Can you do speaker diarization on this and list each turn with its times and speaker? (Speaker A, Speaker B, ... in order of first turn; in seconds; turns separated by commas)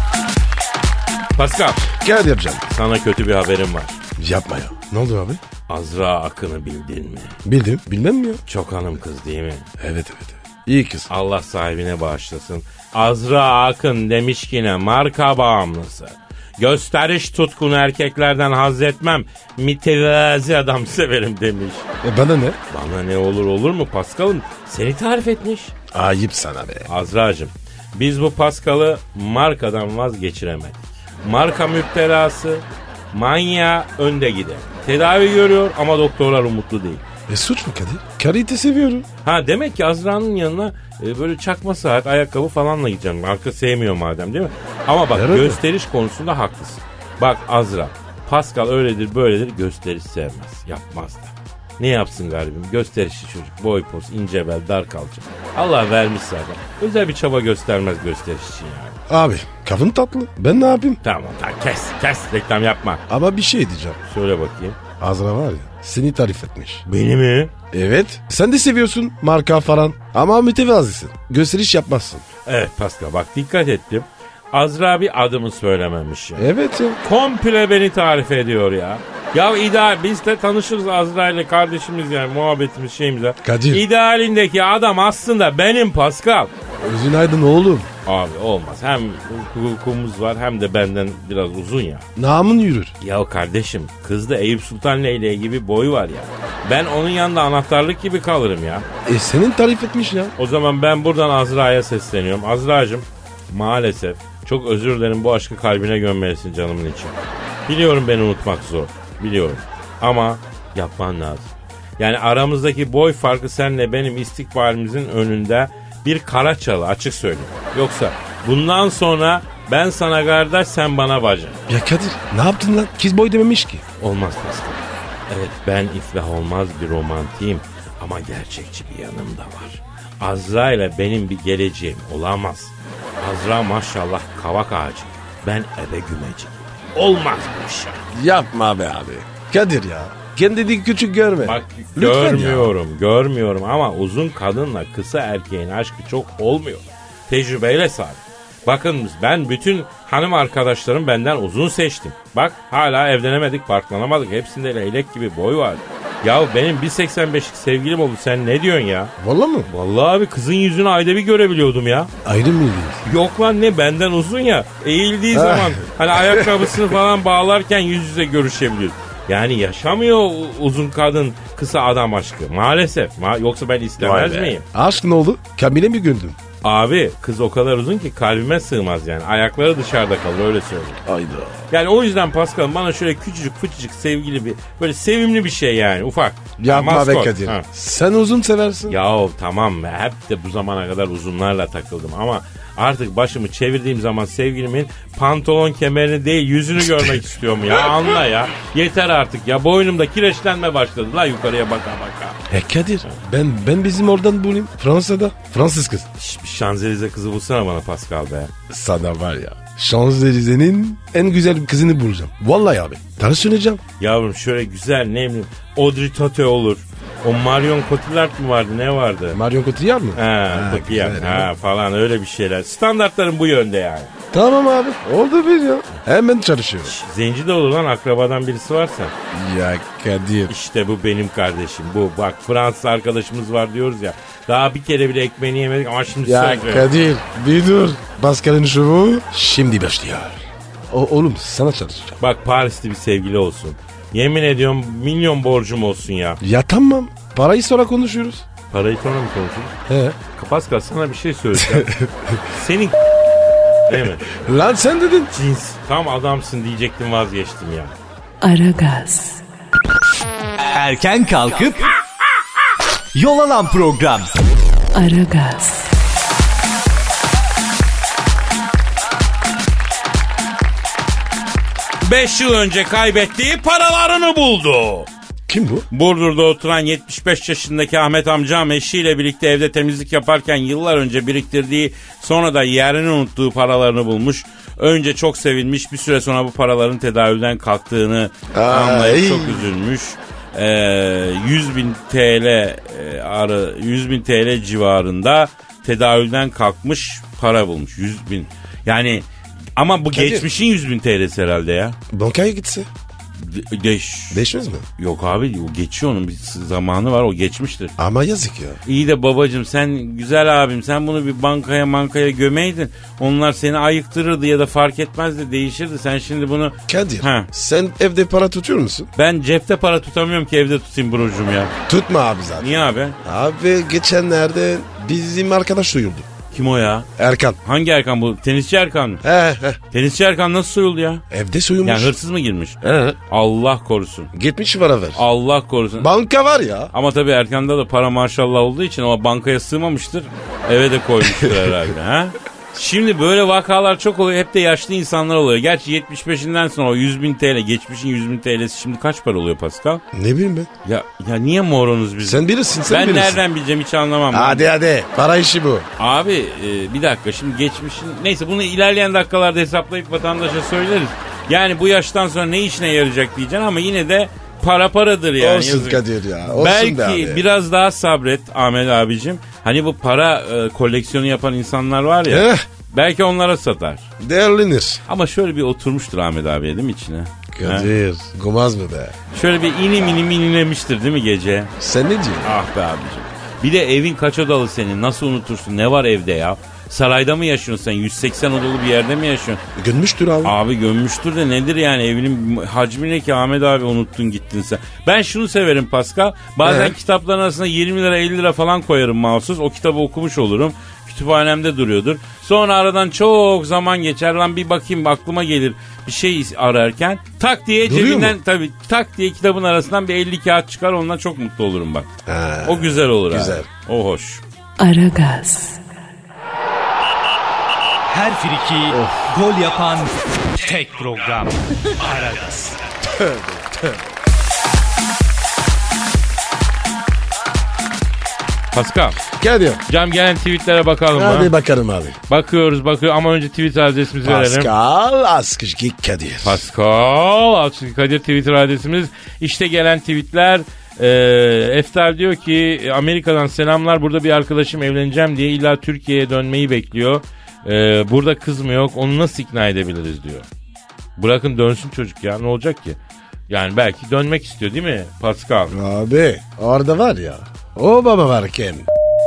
Speaker A: 1.4-1.8, Speaker B: 1.9-2.6, Speaker A: 2.7-4.0, Speaker B: 4.2-5.4, Speaker A: 5.7-7.4, Speaker B: 7.5-8.4, Speaker A: 8.5-9.7, Speaker B: 9.8-11.1, Speaker A: 11.1-21.9, Speaker B: 22.0-22.6, Speaker A: 22.7-25.7, Speaker B: 25.9-26.9, Speaker A: 26.9-37.0, Speaker B: 37.3-39.1, Speaker A: 39.2-59.0, Speaker B: 45.1-45.6, Speaker B: 59.1-61.0, Speaker A: 61.0-63.0, Speaker B: 63.1-64.0, Speaker A: 64.0-64.8, Speaker B: 65.0-66.8, Speaker A: 66.9-67.5, Speaker B: 67.7-72.2, Speaker A: 72.5-76.5, Speaker B: 76.4-77.0, Speaker A: 77.0-86.5, Speaker B: 83.4-83.8, Speaker B: 86.8-87.9, Speaker A: 88.1-92.0, Speaker B: 92.2-92.9, Speaker A: 93.0-98.9, Speaker B: 99.1-100.3, Speaker A: 100.4-107.2, Speaker A: 107.7-121.6, Speaker B: 121.7-123.8, Speaker A: 124.0-138.0, Speaker B: 138.1-142.7, Speaker A: 141.4-159.1, Speaker B: 159.2-159.7, Speaker A: 159.7-162.1, Speaker B: 162.2-163.0, Speaker A: 163.1-174.6, Speaker B: 165.3-166.7, Speaker B: 174.0-176.4, Speaker A: 176.6-181.0, Speaker B: 181.1-181.6, Speaker A: 181.7-187.7, Speaker B: 186.6-189.0, Speaker A: 188.9-202.4, Speaker B: 196.8-197.3, Speaker B: 202.5-206.1, Speaker A: 206.2-208.5, Speaker B: 208.7-213.8, Speaker A: 214.0-219.4, Speaker B: 219.3-221.5, Speaker A: 220.2-224.1, Speaker B: 224.3-226.9, Speaker A: 226.8-229.1, Speaker B: 229.3-230.5, Speaker A: 230.5-236.9, Speaker B: 236.3-242.2, Speaker A: 242.2-246.4, Speaker B: 246.4-248.4, Speaker A: 248.7-249.8, Speaker B: 249.9-250.2, Speaker A: 250.3-251.9, Speaker B: 251.6-252.4, Speaker A: 252.5-252.9, Speaker A: 253.9-254.5, Speaker B: 254.4-255.3, Speaker A: 255.3-257.9, Speaker C: 258.4-259.4, Speaker D: 260.7-261.9, Speaker D: 263.1-264.3, Speaker C: 264.9-265.9, Speaker A: 272.0-275.1, Speaker B: 275.5-275.9, Speaker A: 275.9-299.2, Speaker B: 288.5-289.7, Speaker A: 299.8-302.0, Speaker B: 300.1-300.5, Speaker B: 302.1-302.9, Speaker A: 303.4-304.4, Speaker B: 304.3-304.9, Speaker A: 305.0-307.9, Speaker B: 308.0-308.8, Speaker A: 308.9-317.5, Speaker B: 316.9-319.1, Speaker A: 319.2-321.7, Speaker B: 321.9-326.3, Speaker A: 322.6-323.2, Speaker A: 326.5-327.1, Speaker B: 327.2-327.6, Speaker A: 327.6-329.2, Speaker B: 329.2-329.8, Speaker A: 329.9-331.2, Speaker B: 331.3-332.2, Speaker A: 331.8-332.8, Speaker B: 332.8-333.2, Speaker A: 333.3-334.3, Speaker B: 334.3-335.3, Speaker A: 335.1-336.1, Speaker B: 336.0-336.9, Speaker A: 336.9-350.0, Speaker B: 341.3-341.5, Speaker B: 350.1-350.7, Speaker A: 350.9-354.7, Speaker B: 352.2-353.4, Speaker B: 354.3-355.9, Speaker A: 356.0-374.0, Speaker B: 365.4-367.4, Speaker B: 372.3-372.6, Speaker B: 374.2-375.0, Speaker A: 375.1-377.9, Speaker B: 377.5-379.1, Speaker A: 379.3-381.7, Speaker B: 381.8-382.6, Speaker A: 382.4-389.6, Speaker B: 389.8-390.6, Speaker A: 390.4-412.1, Speaker B: 396.6-396.9, Speaker B: 407.9-408.4, Speaker B: 412.3-413.7, Speaker A: 412.6-414.4, Speaker C: 414.8-415.8, Speaker D: 418.1-422.8, Speaker B: 418.9-419.3, Speaker B: 423.1-423.8, Speaker A: 428.7-429.2, Speaker B: 429.4-429.8, Speaker A: 429.9-431.5, Speaker B: 431.1-432.2, Speaker A: 432.3-434.7, Speaker B: 434.2-436.6, Speaker A: 436.4-450.5, Speaker A: 451.2-453.0, Speaker A: 453.5-455.7, Speaker B: 455.7-458.9